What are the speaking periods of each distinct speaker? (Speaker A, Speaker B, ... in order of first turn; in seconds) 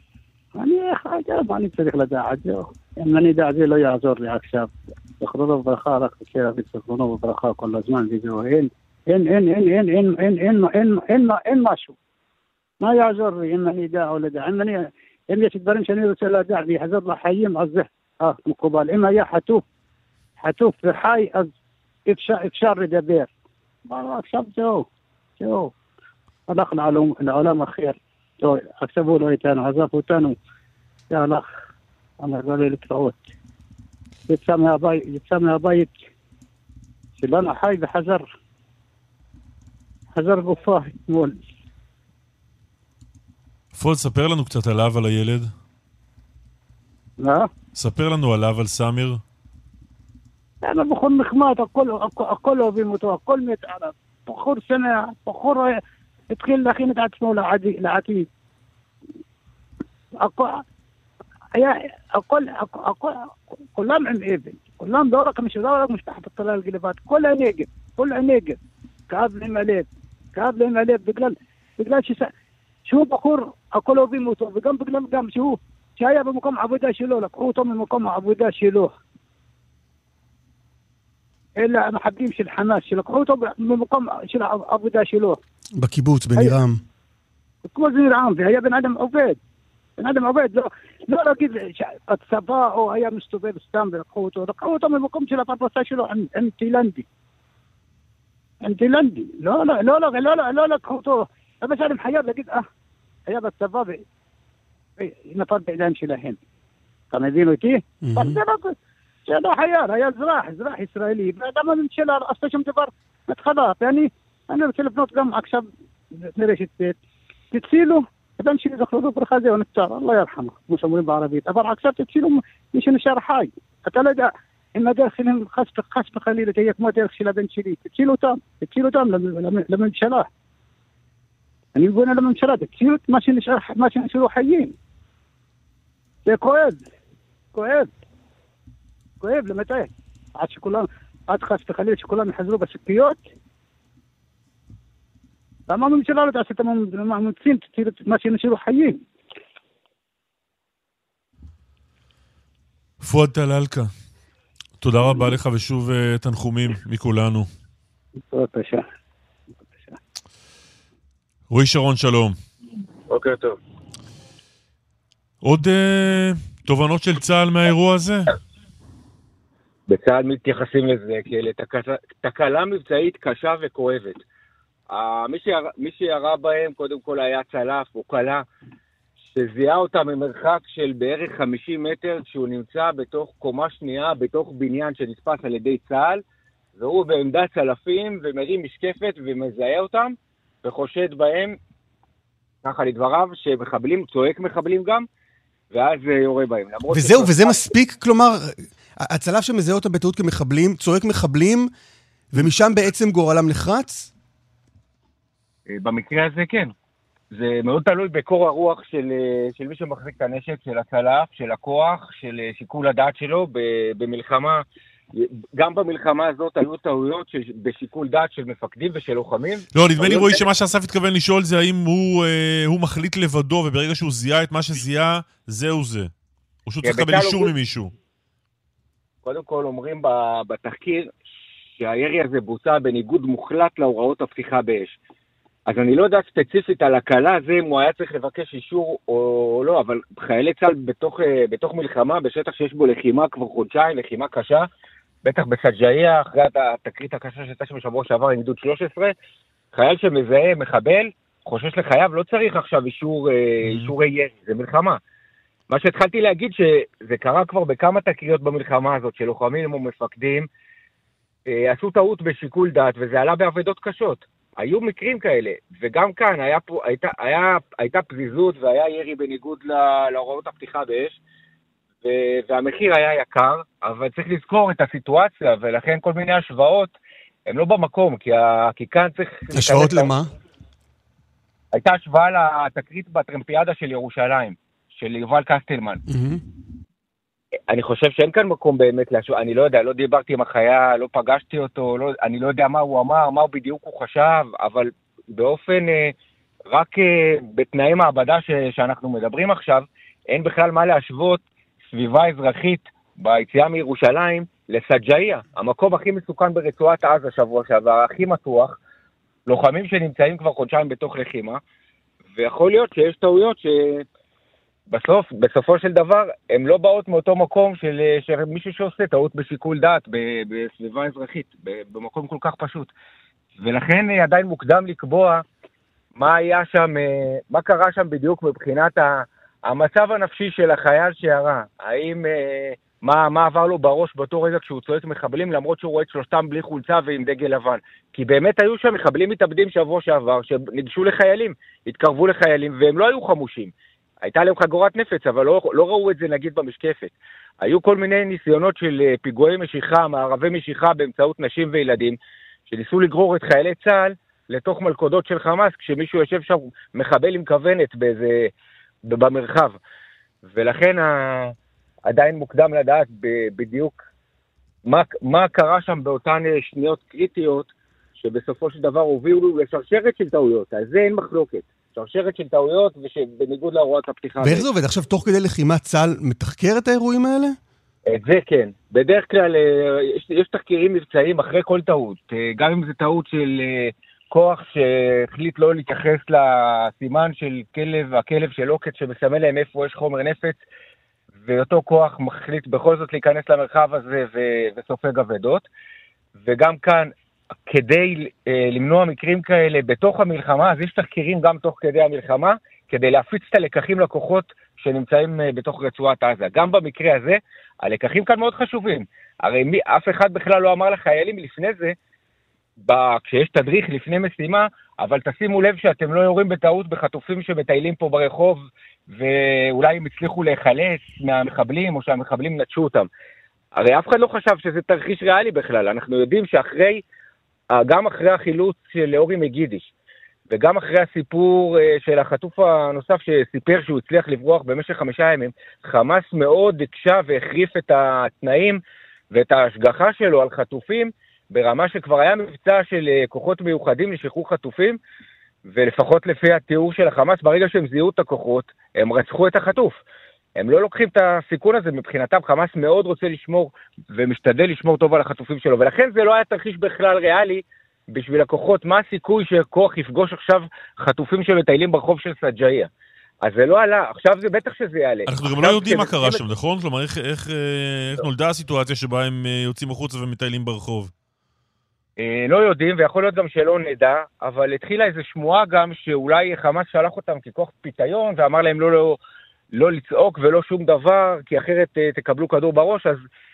Speaker A: 0.6-11.9, 12.8-19.6, 20.4-21.5, 22.1-23.3, 23.9-24.9, 25.4-25.7, 26.5-30.4, 31.1-31.4, 32.2-33.3, 34.3-35.9, 37.2-38.3, 40.1-41.4, 47.2-47.5, 50.6-55.8, 56.3-58.3, 60.2-60.6, 61.5-68.6, 69.1-72.3, 72.9-78.9, 81.6-85.4, 87.7-89.4, 90.0-97.1, 98.6-102.6, 103.3-104.0, 105.0-106.4, 107.1-108.8, 109.3-117.0, 117.5-130.3, 131.8-134.7, 136.3-136.8, 137.5-137.9, 139.2-143.2, 145.7-149.0, 158.3-158.8, 159.7-160.0
Speaker B: 43.8-45.5, 47.8-49.2, 153.0-153.9, 154.8-157.5, 161.5-162.4, 165.4-168.3, 219.8-226.1, 226.7-227.9, 465.3-471.1
Speaker C: 85.8-86.8, 108.0-108.4, 196.9-201.7, 202.3-204.1, 279.5-280.3, 286.1-286.4, 374.4-377.6
Speaker D: 169.9-174.2, 174.9-178.4, 179.3-186.2, 186.8-191.6, 192.6-195.1, 195.7-197.6, 205.7-206.7, 207.3-220.4, 226.8-227.5, 229.2-231.1, 231.8-235.0, 235.7-244.7, 245.2-249.2, 249.7-255.0, 255.7-260.5, 261.5-271.2, 272.0-276.9, 277.5-280.1, 281.7-286.0, 287.7-296.1, 296.7-308.8, 309.5-311.6, 312.4-314.1, 314.9-322.9, 323.6-325.4, 326.2-352.2, 352.7-358.5, 359.0-359.8, 360.4-361.6, 362.1-364.0, 364.9-374.6, 378.1-390.6, 391.4-395.7, 396.4-397.1, 397.7-412.0, 412.9-423.1, 423.7-427.0, 427.7-429.9, 430.5-445.0, 445.7-450.0, 450.6-462.9, 463.4-466.4, 472.2-479.2, 479.7-483.2